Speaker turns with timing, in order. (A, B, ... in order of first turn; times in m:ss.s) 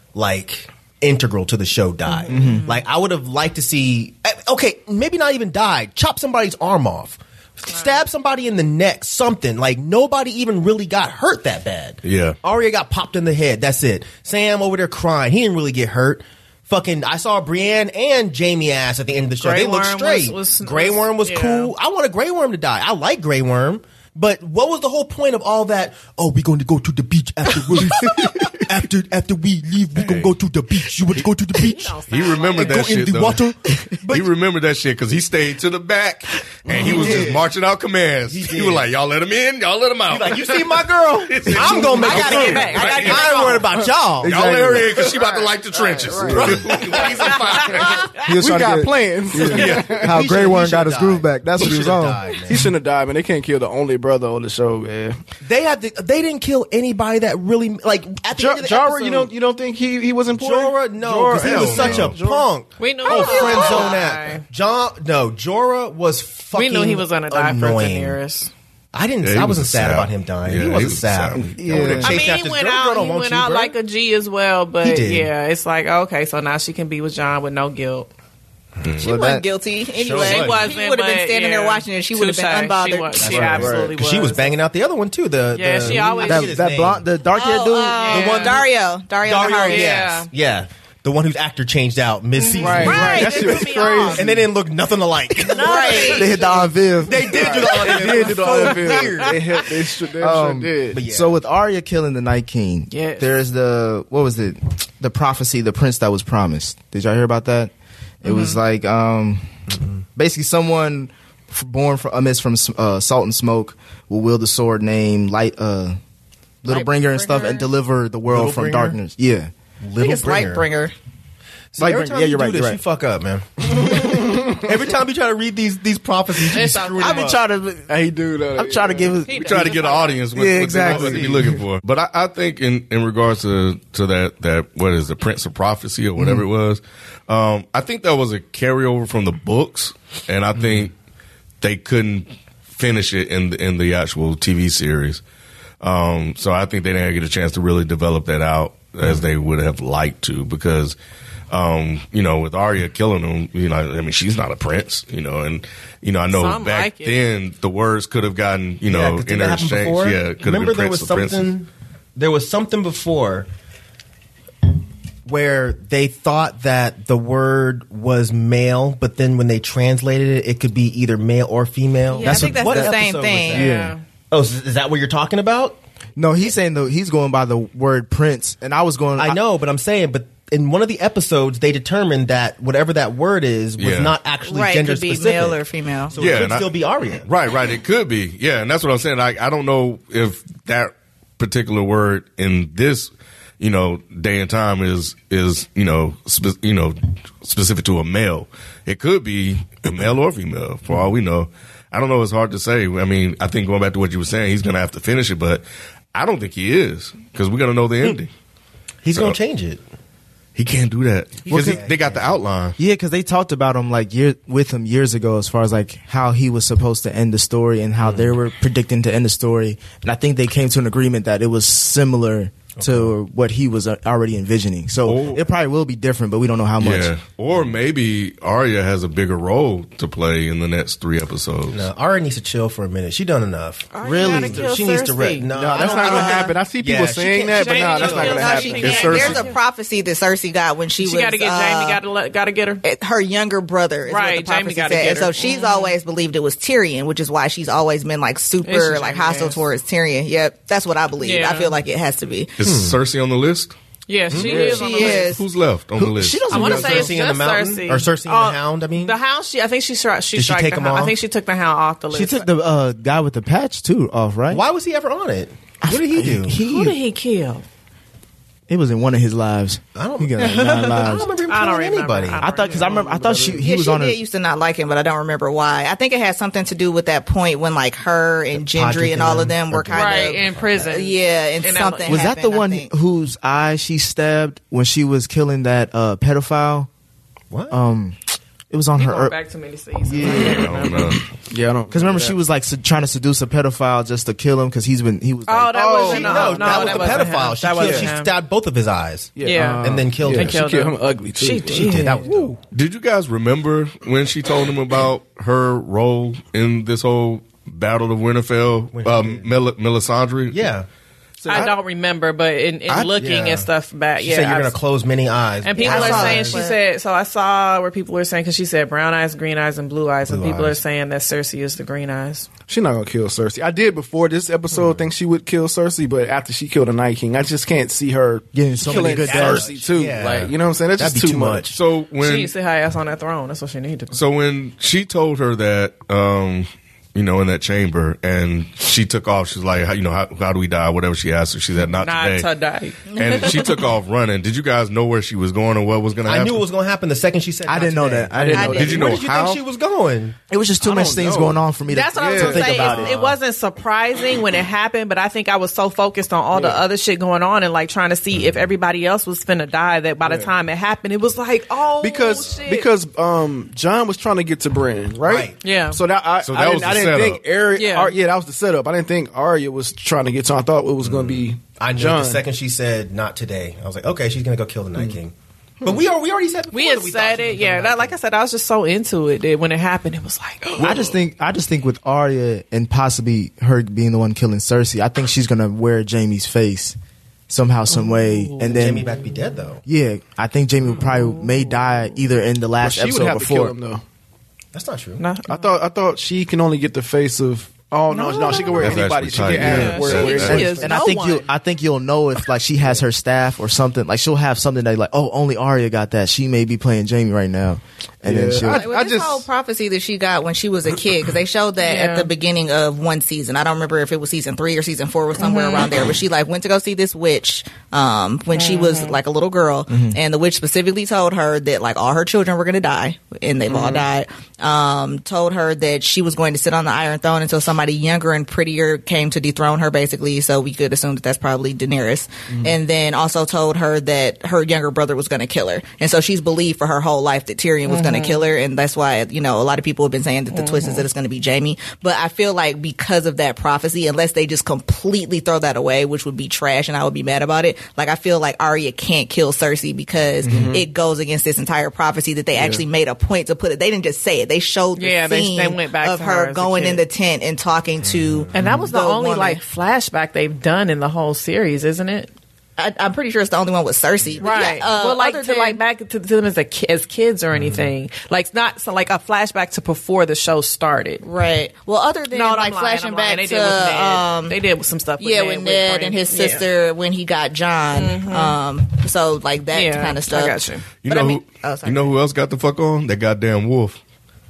0:00.2-0:34.3 A
0:02.1-0:02.8 B
0:02.3-0:02.6 C
0:07.7-0:08.0 B
0:12.0-0:12.4 D
0:19.4-0:21.7 B
0:30.0-0:30.3 D
0:31.6-0:32.9 B
0:32.1-0:33.4 D
0:34.1-0:43.6 D
0:36.7-0:37.4 E
0:36.7-0:37.4 A
0:38.3-0:38.9 A
0:40.1-0:44.4 A
0:41.9-0:43.3 B
0:43.3-0:43.6 E
0:44.2-0:45.0 C
0:44.2-0:48.2 D
0:45.9-0:47.0 E
0:46.2-0:48.0 A
0:46.3-0:46.7 C
0:48.2-0:50.2 E
0:48.2-0:52.2 C
0:49.4-0:50.1 D
0:49.6-0:52.7 A
0:52.4-0:55.2 E
0:55.4-0:59.3 A
0:58.4-1:02.5 E
1:00.3-1:08.2 A
1:01.3-1:02.2 D
1:02.8-1:04.4 B
1:03.1-1:03.9 F
1:06.5-1:08.5 B
1:08.9-1:13.8 A
1:09.2-1:12.1 D
1:11.4-1:12.1 C
1:12.0-1:18.1 B
1:14.8-1:15.3 A
1:18.8-1:19.2 D
1:19.0-1:23.7 F
1:19.0-1:19.4 C
1:20.0-1:20.7 A
1:20.2-1:24.6 B
1:23.2-1:27.1 A
1:23.3-1:23.9 E
1:25.5-1:26.6 B
1:25.8-1:28.2 C
1:27.3-1:30.0 F
1:27.6-1:28.6 B
1:28.1-1:28.7 A
1:29.2-1:33.6 A
1:29.7-1:30.3 B
1:32.4-1:34.3 B
1:32.6-1:34.4 E
1:34.1-1:36.4 A
1:35.4-1:36.6 B
1:35.5-1:36.6 F
1:36.0-1:37.7 C
1:37.0-1:39.6 A
1:37.2-1:41.0 E
1:37.8-1:39.3 B
1:40.2-1:47.7 C
1:40.9-1:41.4 A
1:42.9-1:43.3 B
1:48.2-1:49.5 C
1:48.3-1:48.5 F
1:49.7-1:50.0 A
1:50.2-1:56.0 C
1:56.6-1:59.5 C
1:56.7-1:57.6 F
1:56.7-1:57.4 B
1:58.3-1:59.0 A
1:59.8-2:00.7 A
2:00.0-2:00.9 F
2:01.7-2:07.4 A
2:01.8-2:02.8 C
2:03.8-2:04.6 E
2:06.5-2:07.3 B
2:06.6-2:07.9 C
2:07.9-2:09.2 E
2:08.6-2:09.7 C
2:09.3-2:10.2 B
2:09.4-2:20.9 D
2:10.3-2:11.6 C
2:21.6-2:25.2 D
2:25.8-2:31.0 D
2:31.5-2:41.5 D
2:36.3-2:37.2 B
2:38.9-2:43.5 A
2:45.3-2:53.7 A
2:52.1-2:53.7 F
2:52.2-2:53.0 C
2:53.5-2:54.0 B
2:53.5-2:54.0 C
2:54.3-2:55.8 A
2:56.2-2:59.4 C
2:59.2-3:07.3 A
3:03.8-3:04.2 D
3:04.4-3:06.2 F
3:06.2-3:06.7 D
3:07.2-3:25.6 D
3:26.1-3:28.3 D
3:29.0-3:29.8 A
3:30.6-3:32.8 D
3:31.5-3:31.9 C
3:31.5-3:32.4 A
3:32.8-3:47.1 C
3:42.8-3:43.1 A
3:45.1-3:45.4 D
3:46.8-3:51.9 D
3:51.7-3:59.3 A
3:53.9-3:56.5 B
3:54.0-3:54.7 C
3:55.5-3:59.4 E
3:57.5-3:59.6 B
3:57.9-4:02.0 F
4:01.0-4:02.8 B
4:02.8-4:12.6 F
4:04.1-4:05.9 B
4:08.6-4:09.6 B
4:11.2-4:11.8 B
4:12.6-4:13.7 D
4:12.6-4:13.0 A
4:14.1-4:15.3 B
4:14.3-4:14.7 A
4:14.3-4:15.0 E
4:14.6-4:15.4 F
4:15.2-4:16.5 D
4:16.0-4:17.2 C
4:16.5-4:19.2 A
4:16.5-4:22.5 B
4:20.4-4:21.2 A
4:22.1-4:24.6 C
4:24.5-4:26.6 A
4:25.8-4:27.0 C
4:26.6-4:27.6 B
4:28.7-4:31.3 C
4:30.0-4:32.4 A
4:31.5-4:33.4 B
4:32.4-4:34.2 C
4:32.8-4:33.6 E
4:33.6-4:42.9 F
4:38.5-4:40.7 A
4:39.9-4:42.2 B
4:42.1-4:46.9 C
4:47.5-4:47.8 A
4:47.7-4:48.2 C
4:48.7-4:49.4 C
4:49.0-4:51.2 B
4:50.0-4:50.7 C
4:50.3-4:51.2 D
4:51.5-4:52.4 E
4:51.9-4:58.1 C
4:55.5-4:58.3 B
4:55.7-4:57.2 E
4:56.1-5:00.6 A
4:59.4-5:02.1 E
4:59.4-5:02.5 B
4:59.5-5:00.4 C
5:01.7-5:02.6 A
5:02.7-5:10.7 D
5:08.9-5:09.5 A
5:10.5-5:10.9 A
5:11.4-5:11.7 E
5:11.5-5:14.8 B
5:13.2-5:13.7 A
5:14.2-5:16.6 A
5:15.6-5:22.5 B
5:15.8-5:16.8 F
5:20.3-5:20.8 A
5:22.7-5:31.7 E
5:28.5-5:29.7 C
5:28.8-5:31.8 A
5:31.7-5:32.5 D
5:32.2-5:34.2 B
5:34.1-5:42.5 D
5:41.9-5:43.8 B
5:43.1-5:43.8 F
5:43.1-5:46.6 D
5:46.3-5:50.4 A
5:47.6-5:49.0 C
5:48.3-5:49.2 E
5:48.6-5:48.9 F
5:48.6-5:49.6 D
5:50.5-5:53.2 C
5:50.8-5:51.6 E
5:51.9-6:02.9 B
5:52.2-5:53.1 E
5:52.4-5:53.4 A
5:56.5-5:56.8 E
6:00.2-6:00.5 E
6:02.0-6:12.4 E
6:05.2-6:05.6 A
6:05.6-6:06.0 B
6:06.4-6:07.4 D
6:07.7-6:08.1 B
6:11.8-6:18.2 A
6:16.7-6:20.9 B
6:20.6-6:21.2 E
6:20.8-6:27.0 C
6:27.5-6:29.2 C
6:28.0-6:28.4 B
6:28.6-6:29.8 A
6:29.8-6:33.7 C
6:32.8-6:34.0 E
6:34.7-6:35.2 A
6:35.2-6:35.8 B
6:35.5-6:41.0 E
6:38.1-6:41.5 B
6:38.8-6:40.7 D
6:39.6-6:39.9 C
6:40.5-6:48.9 C
6:48.2-6:49.5 E
6:48.6-7:39.6 F
6:51.8-6:52.3 B
6:55.4-6:55.9 B
6:58.5-6:59.2 B
6:59.9-7:00.2 C
7:17.9-7:18.5 B
7:20.5-7:21.0 B
7:30.4-7:30.8 E
7:32.6-7:32.8 E
7:35.0-7:37.0 B
7:38.0-7:38.9 A
7:38.5-7:42.3 B
7:42.8-7:45.8 F
7:44.4-7:51.2 B
7:47.6-7:47.9 A
7:51.2-7:54.6 F
7:52.3-7:56.7 B
7:55.2-8:02.2 F
7:57.9-7:58.6 B
7:59.7-8:00.9 B
8:01.0-8:04.0 D